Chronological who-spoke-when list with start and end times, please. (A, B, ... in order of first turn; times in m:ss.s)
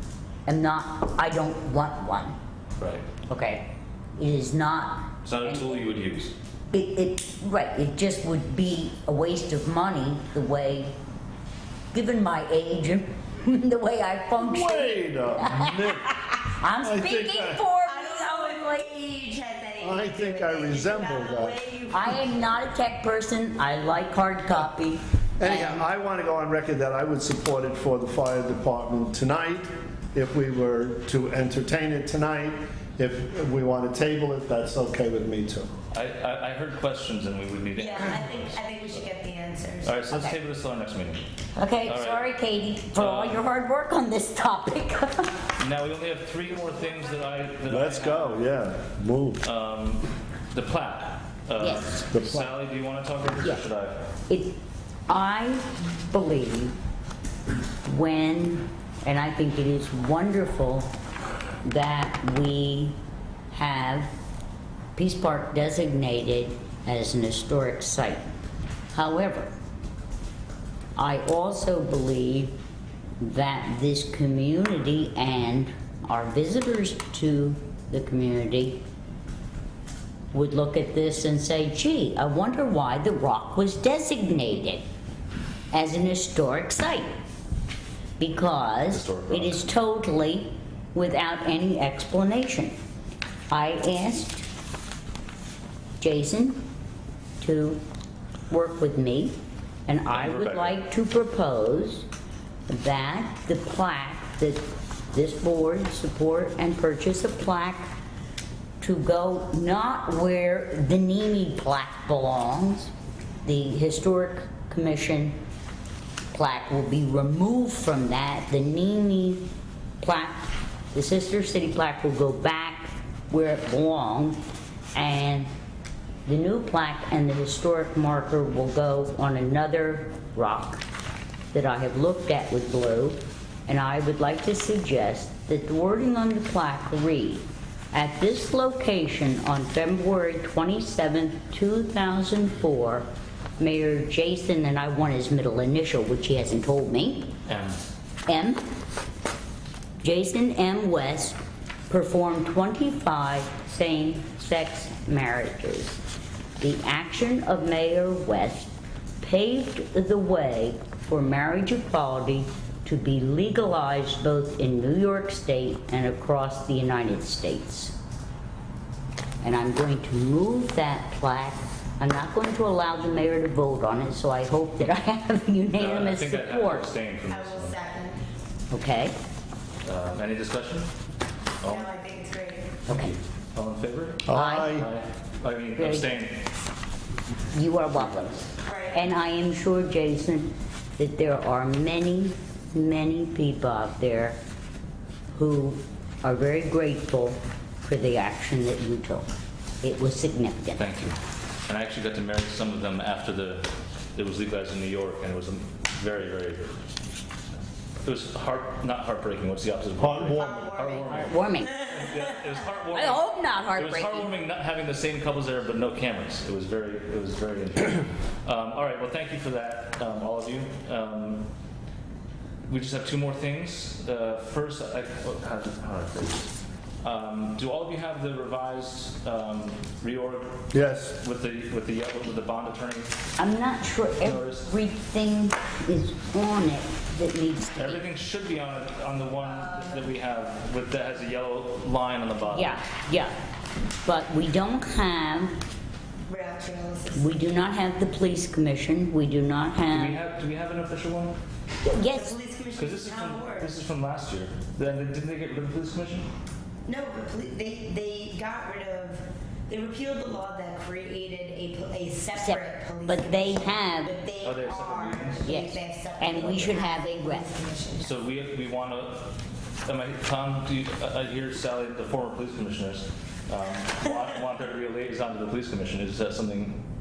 0:00.5-0:02.4 A
0:02.8-0:03.1 B
0:03.3-0:05.8 A
0:05.2-0:06.3 B
0:06.7-0:10.9 A
0:11.9-0:18.9 A
0:14.4-0:16.2 C
0:16.8-0:17.7 C
0:17.8-0:22.4 D
0:19.8-0:21.6 C
0:21.9-0:25.8 A
0:25.4-0:35.7 C
0:35.9-0:38.7 B
0:37.8-0:40.4 D
0:39.8-0:41.2 B
0:41.6-0:45.5 A
0:41.8-0:42.3 B
0:43.0-0:43.4 B
0:45.6-0:48.5 B
0:47.7-0:49.4 C
0:49.4-0:54.0 B
0:51.6-0:52.1 A
0:52.1-0:52.5 C
0:54.3-0:54.6 A
0:55.1-0:56.7 A
0:57.8-1:00.9 A
1:01.6-1:03.0 A
1:03.5-1:04.1 A
1:05.0-1:08.3 A
1:08.9-1:09.5 A
1:11.0-1:12.6 A
1:13.2-1:18.8 A
1:20.3-1:24.8 A
1:25.7-1:27.1 A
1:28.2-1:32.8 A
1:28.9-1:29.6 B
1:33.5-1:34.5 A
1:36.0-1:36.6 A
1:37.4-1:37.8 A
1:38.5-1:39.4 A
1:39.9-1:42.1 A
1:40.1-1:40.8 B
1:42.7-1:47.9 A
1:48.8-1:52.9 A
1:53.4-1:55.4 A
1:56.3-1:59.4 A
2:00.0-2:04.4 A
2:05.0-2:05.5 A
2:06.3-2:10.8 A
2:11.5-2:23.1 A
2:23.6-2:27.3 A
2:27.5-2:27.8 B
2:28.3-2:28.6 A
2:30.0-2:36.0 A
2:36.6-2:48.0 A
2:49.4-2:56.9 A
2:55.8-2:57.8 B
2:57.3-2:58.2 D
2:58.7-2:59.2 A
2:59.8-3:00.9 B
3:01.6-3:01.9 B
3:01.6-3:02.8 D
3:02.9-3:06.4 B
3:02.9-3:03.2 A
3:04.3-3:04.9 C
3:04.3-3:04.8 A
3:05.8-3:06.2 A
3:07.5-3:14.4 A
3:08.6-3:09.1 D
3:15.3-3:19.3 A
3:19.8-3:20.8 A
3:20.8-3:26.8 B
3:28.0-3:41.5 B
3:30.0-3:30.7 C
3:30.4-3:31.3 D
3:31.1-3:31.9 A
3:32.9-3:34.4 A
3:42.7-3:53.1 B
3:50.7-3:51.2 C
3:53.4-3:58.0 A
3:54.2-3:54.7 B
3:57.8-4:02.8 B
3:59.4-4:00.1 D
4:02.5-4:03.4 A
4:04.0-4:05.6 A
4:06.3-4:07.4 D
4:07.2-4:10.2 A
4:09.9-4:11.4 B
4:11.8-4:12.4 A
4:12.1-4:13.8 D
4:12.8-4:16.3 B
4:16.9-4:28.1 D
4:22.3-4:24.2 A
4:24.4-4:25.5 B
4:25.4-4:27.5 A
4:28.0-4:29.3 B
4:29.9-4:36.8 B